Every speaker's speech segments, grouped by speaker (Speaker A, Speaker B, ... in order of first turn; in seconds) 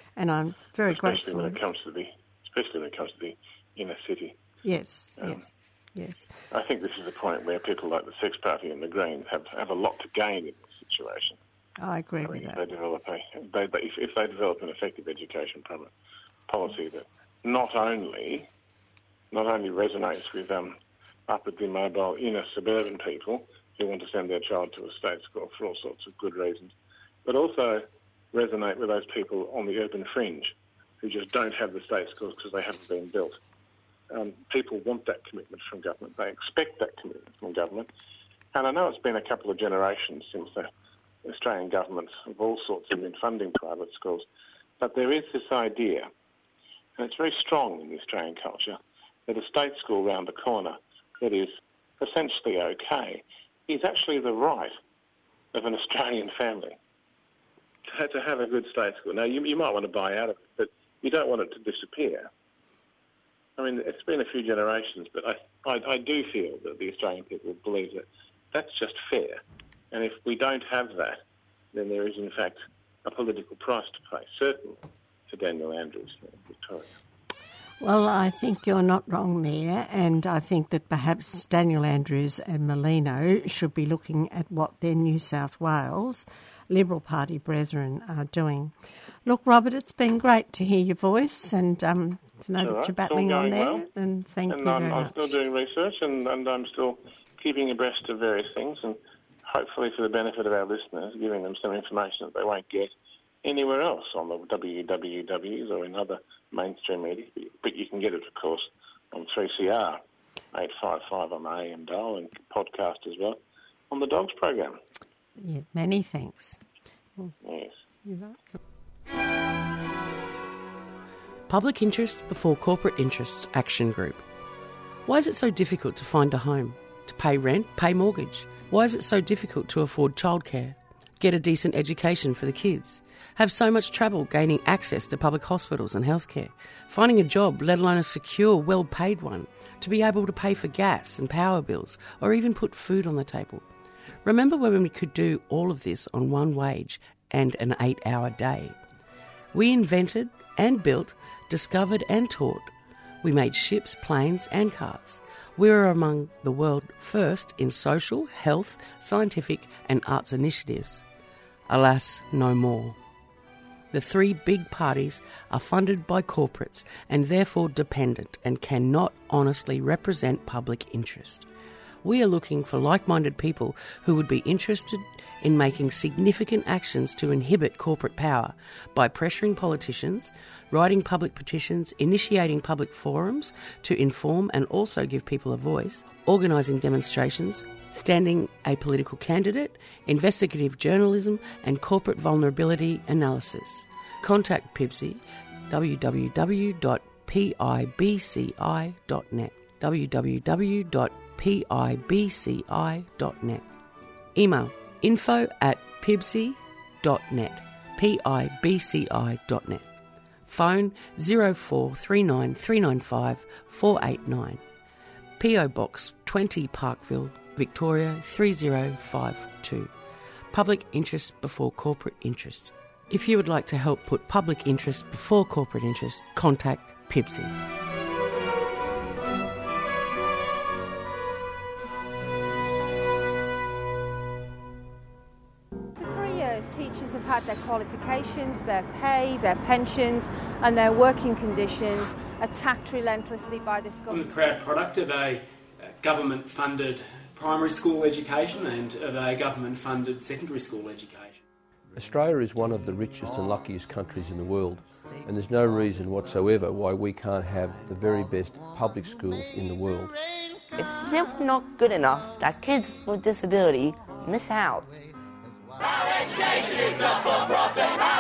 Speaker A: 0.2-1.6, 4.6-6.3, 11.8-12.6, 77.8-95.3, 115.4-116.6, 118.0-118.4
Speaker B: 0.9-4.4, 6.5-11.4, 12.2-15.9, 16.5-18.5, 19.3-20.8, 21.3-26.7, 27.2-33.4, 34.1-37.9, 38.5-40.7, 41.2-44.3, 44.8-46.1, 47.0-54.8, 55.5-56.8, 57.9-62.3, 63.6-69.4, 69.9-71.2, 71.7-76.9, 92.6-93.8, 94.5-102.9, 103.4-110.0, 110.5-113.4, 113.9-114.8, 117.4-117.8
Speaker C: 121.5-124.2, 125.1-143.7, 144.2-148.8, 149.5-161.0, 161.7-163.0, 163.9-171.5, 172.0-203.6, 204.3-209.8, 210.5-214.6, 215.4-219.9, 220.5-227.5
Speaker D: 236.0-244.4
Speaker E: 244.1-251.4
Speaker F: 252.0-260.2
Speaker G: 260.8-265.0